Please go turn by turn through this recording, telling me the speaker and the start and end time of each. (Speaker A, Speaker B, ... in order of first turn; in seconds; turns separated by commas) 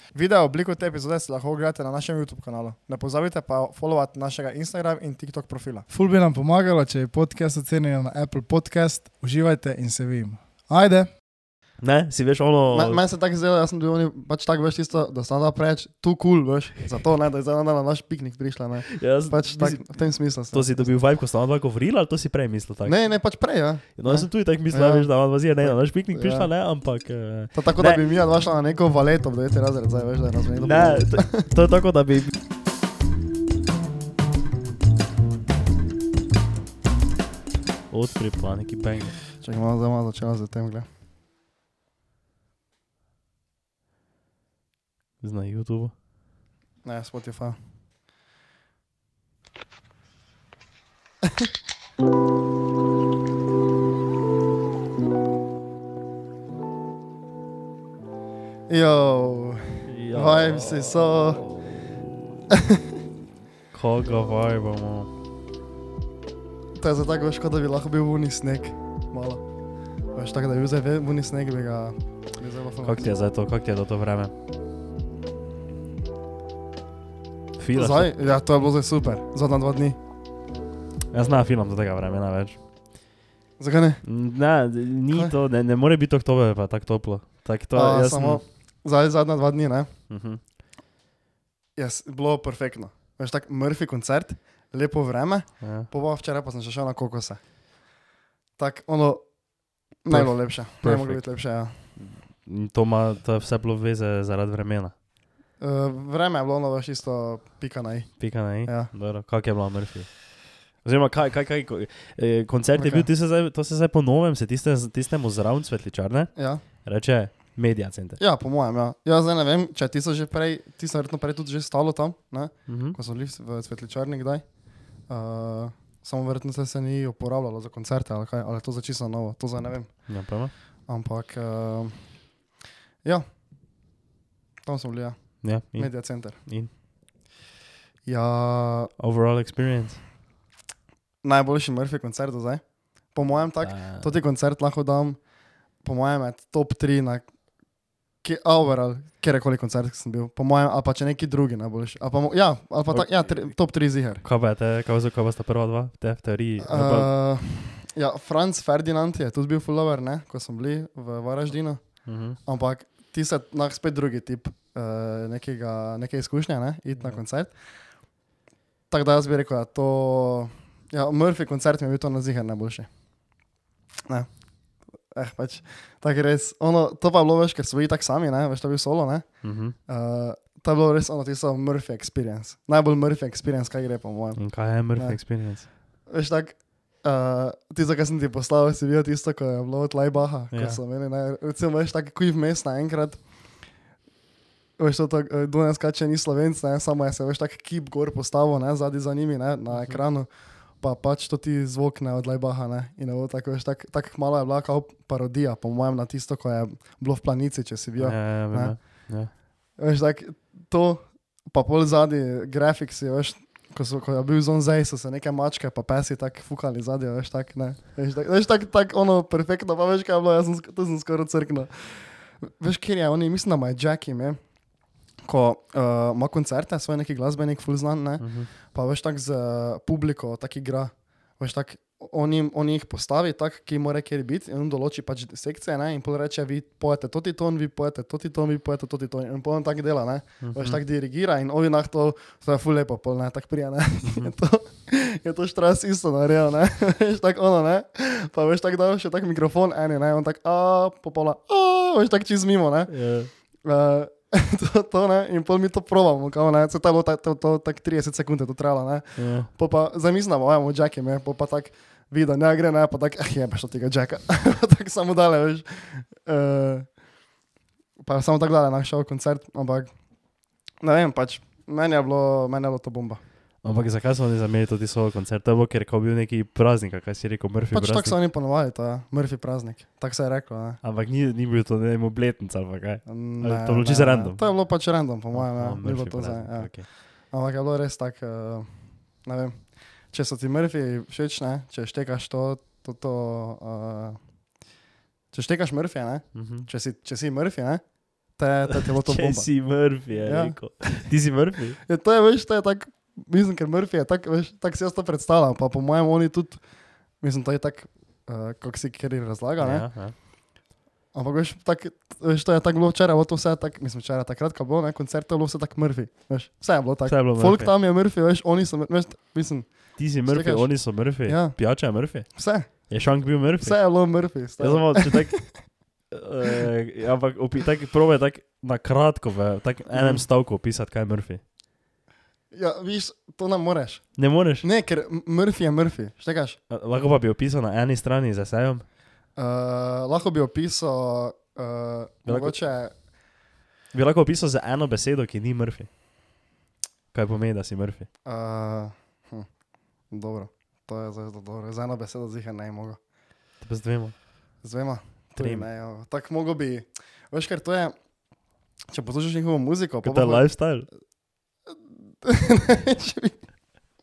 Speaker A: 0.1-5.8, Speaker B: 5.9-11.1, Speaker C: 11.8-13.0, Speaker A: 12.7-20.9, Speaker C: 18.9-22.9, Speaker A: 22.8-26.5, Speaker C: 24.0-28.0, Speaker A: 27.5-31.4, Speaker C: 30.6-32.3, Speaker C: 37.9-39.1, Speaker A: 39.4-40.9, Speaker C: 45.2-45.9, Speaker A: 46.8-47.6, Speaker A: 58.7-61.4, Speaker C: 59.9-62.4, Speaker C: 63.7-65.1, Speaker A: 66.8-69.4, Speaker A: 70.1-73.1, Speaker C: 72.8-74.3, Speaker C: 77.6-78.1, Speaker A: 77.7-80.0, Speaker C: 81.1-82.6, Speaker A: 83.6-84.0, Speaker C: 84.0-88.4, Speaker A: 87.7-89.9, Speaker C: 90.1-90.4, Speaker A: 91.8-97.4, Speaker C: 95.6-95.9, Speaker A: 98.6-99.4, Speaker A: 100.0-101.8, Speaker C: 100.1-104.9, Speaker A: 105.6-108.9, Speaker C: 108.2-110.2, Speaker C: 110.8-118.2, Speaker A: 112.7-113.1, Speaker A: 116.3-116.6, Speaker A: 118.2-132.3, Speaker C: 122.7-123.0, Speaker C: 130.1-130.5, Speaker A: 134.6-136.4, Speaker C: 135.4-136.7, Speaker A: 138.0-138.9, Speaker C: 139.0-140.0, Speaker A: 141.2-145.2, Speaker C: 143.6-144.1, Speaker A: 145.8-147.3, Speaker A: 148.2-154.2, Speaker C: 152.9-153.6, Speaker C: 154.2-157.1, Speaker A: 156.6-167.6, Speaker C: 162.1-162.4, Speaker A: 168.9-172.9, Speaker A: 175.1-185.2, Speaker C: 179.4-179.7, Speaker C: 184.3-185.7, Speaker A: 186.1-193.7, Speaker C: 190.5-190.8, Speaker A: 194.8-209.1, Speaker C: 199.7-200.0, Speaker C: 208.0-209.3, Speaker A: 209.8-224.4, Speaker A: 225.2-267.0, Speaker C: 228.2-228.5, Speaker C: 240.4-240.8, Speaker C: 244.0-244.3, Speaker C: 252.9-253.3, Speaker C: 259.1-259.5, Speaker A: 268.0-269.9, Speaker A: 270.8-273.2, Speaker C: 273.6-278.1, Speaker A: 277.7-280.8, Speaker C: 280.8-284.4, Speaker A: 283.1-294.2, Speaker C: 285.3-286.9, Speaker A: 295.3-299.5, Speaker C: 296.3-296.7, Speaker C: 298.7-301.8, Speaker A: 300.1-301.1, Speaker A: 301.8-306.6, Speaker A: 307.2-309.9, Speaker C: 309.6-310.1, Speaker A: 311.1-321.6, Speaker C: 317.1-317.7, Speaker C: 319.9-323.8, Speaker A: 322.2-322.9, Speaker A: 323.6-325.6, Speaker C: 324.6-325.5, Speaker C: 326.1-331.4, Speaker A: 329.9-330.2, Speaker A: 332.5-336.6, Speaker C: 334.2-334.7, Speaker C: 336.7-338.8, Speaker A: 339.4-342.9, Speaker C: 342.2-342.6, Speaker C: 343.9-345.9, Speaker C: 347.1-348.1, Speaker A: 348.2-349.5, Speaker A: 350.1-353.0, Speaker C: 353.6-354.1, Speaker A: 354.6-357.9, Speaker C: 355.4-355.6, Speaker A: 358.9-360.5, Speaker C: 360.0-360.9, Speaker A: 361.7-363.5